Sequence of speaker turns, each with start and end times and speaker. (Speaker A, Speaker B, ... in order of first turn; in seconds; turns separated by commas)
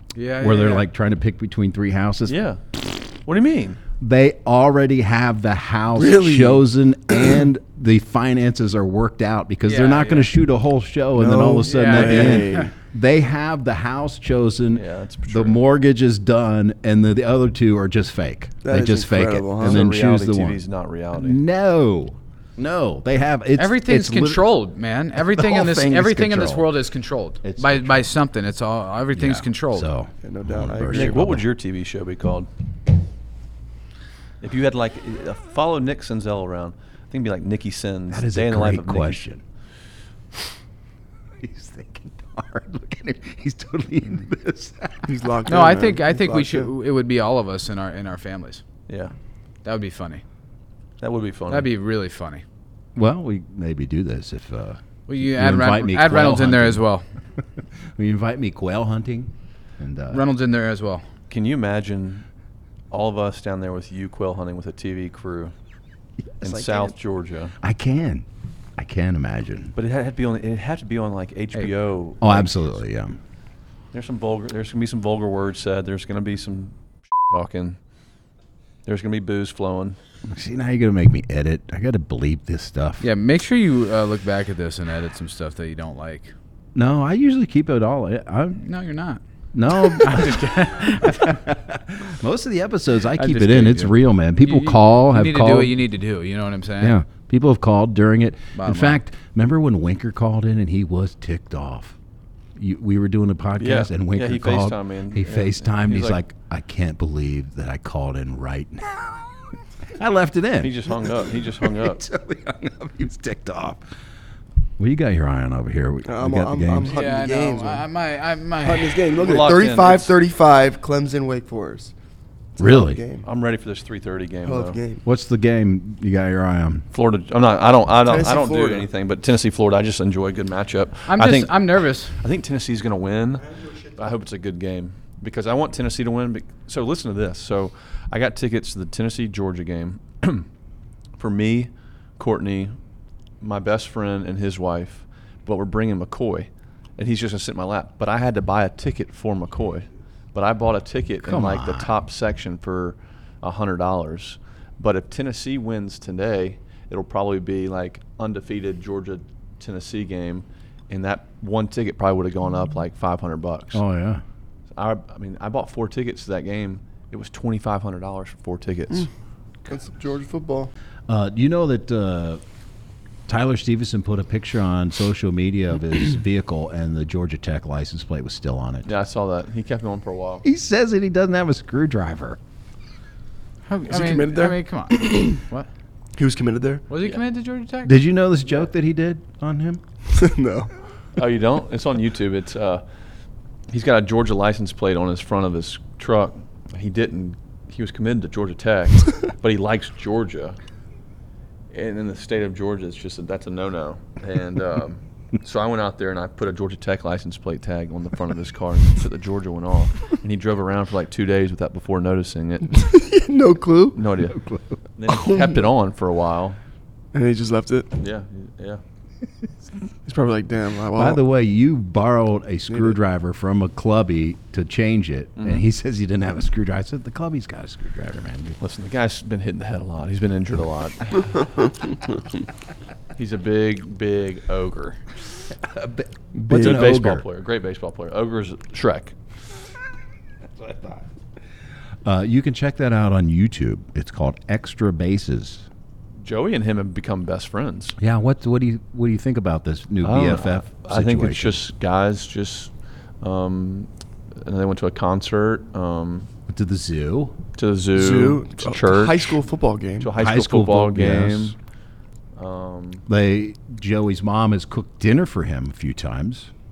Speaker A: 0.1-0.9, Speaker B: 0.4-2.4, Speaker C: 2.3-3.8, Speaker B: 4.0-20.6, Speaker D: 6.0-6.6, Speaker A: 9.7-10.3, Speaker D: 11.1-12.7, Speaker A: 11.6-12.7, Speaker C: 14.7-15.6, Speaker D: 18.6-19.8, Speaker C: 19.6-21.4, Speaker B: 21.1-24.5, Speaker A: 23.6-29.9, Speaker B: 25.2-26.7, Speaker B: 27.4-28.1, Speaker B: 29.1-31.4, Speaker D: 30.2-31.3, Speaker C: 30.9-32.5, Speaker C: 34.4-39.2, Speaker B: 38.1-39.4, Speaker B: 41.4-45.3, Speaker D: 45.0-46.7, Speaker A: 45.5-48.6, Speaker C: 48.9-49.1, Speaker A: 49.6-50.2, Speaker C: 51.0-51.7, Speaker A: 51.5-52.4, Speaker B: 52.9-56.9, Speaker A: 55.1-57.0, Speaker B: 58.0-60.3, Speaker A: 60.1-61.0, Speaker C: 61.3-62.2, Speaker C: 62.9-65.5, Speaker B: 66.3-66.9, Speaker C: 66.4-67.5, Speaker B: 67.6-68.2, Speaker B: 68.8-69.7, Speaker C: 69.7-72.8, Speaker B: 72.2-73.2, Speaker C: 73.9-77.8, Speaker C: 78.8-80.0, Speaker B: 80.3-83.0, Speaker A: 83.0-86.3, Speaker B: 86.7-88.6, Speaker A: 88.6-91.4, Speaker B: 89.5-95.8, Speaker A: 93.1-97.0, Speaker B: 96.8-102.0, Speaker A: 98.5-99.0, Speaker B: 102.5-113.8, Speaker C: 103.6-106.2, Speaker C: 110.6-112.0, Speaker B: 114.8-116.9, Speaker D: 116.0-117.8, Speaker A: 116.9-118.9, Speaker D: 118.6-121.9, Speaker C: 119.2-120.1, Speaker D: 122.6-123.2, Speaker B: 122.6-123.0, Speaker C: 123.2-124.8, Speaker D: 124.4-125.0, Speaker B: 125.0-126.8, Speaker C: 126.9-140.5, Speaker D: 128.0-128.9, Speaker A: 131.1-132.1, Speaker C: 141.2-142.8, Speaker C: 143.4-163.8, Speaker B: 151.2-151.9, Speaker B: 163.7-164.2, Speaker C: 164.7-169.1, Speaker D: 169.7-170.7, Speaker B: 171.1-172.4, Speaker B: 173.3-178.9, Speaker C: 178.8-180.4, Speaker B: 180.4-182.4, Speaker A: 183.7-185.7, Speaker D: 183.9-185.4, Speaker D: 186.2-186.8, Speaker A: 186.9-188.0, Speaker B: 187.8-189.8, Speaker D: 190.1-190.7, Speaker C: 191.2-192.8, Speaker C: 193.7-200.6, Speaker C: 201.7-212.8, Speaker D: 212.7-214.0, Speaker C: 213.9-214.4, Speaker B: 214.3-214.8, Speaker C: 215.0-216.6, Speaker D: 217.1-217.9, Speaker C: 218.0-218.8, Speaker D: 220.1-221.2, Speaker B: 220.9-228.6, Speaker C: 225.4-225.6, Speaker C: 228.6-231.6, Speaker C: 233.2-235.0, Speaker B: 235.6-237.2, Speaker D: 236.3-236.8, Speaker C: 236.5-239.1, Speaker B: 240.6-241.0, Speaker B: 242.0-245.7, Speaker C: 246.2-247.9, Speaker B: 248.0-251.6, Speaker C: 250.0-253.9, Speaker C: 254.4-256.3, Speaker B: 256.5-257.4, Speaker C: 257.6-259.4, Speaker D: 257.9-260.1, Speaker C: 260.0-261.6, Speaker B: 260.1-261.6, Speaker C: 262.4-263.0, Speaker B: 263.1-266.5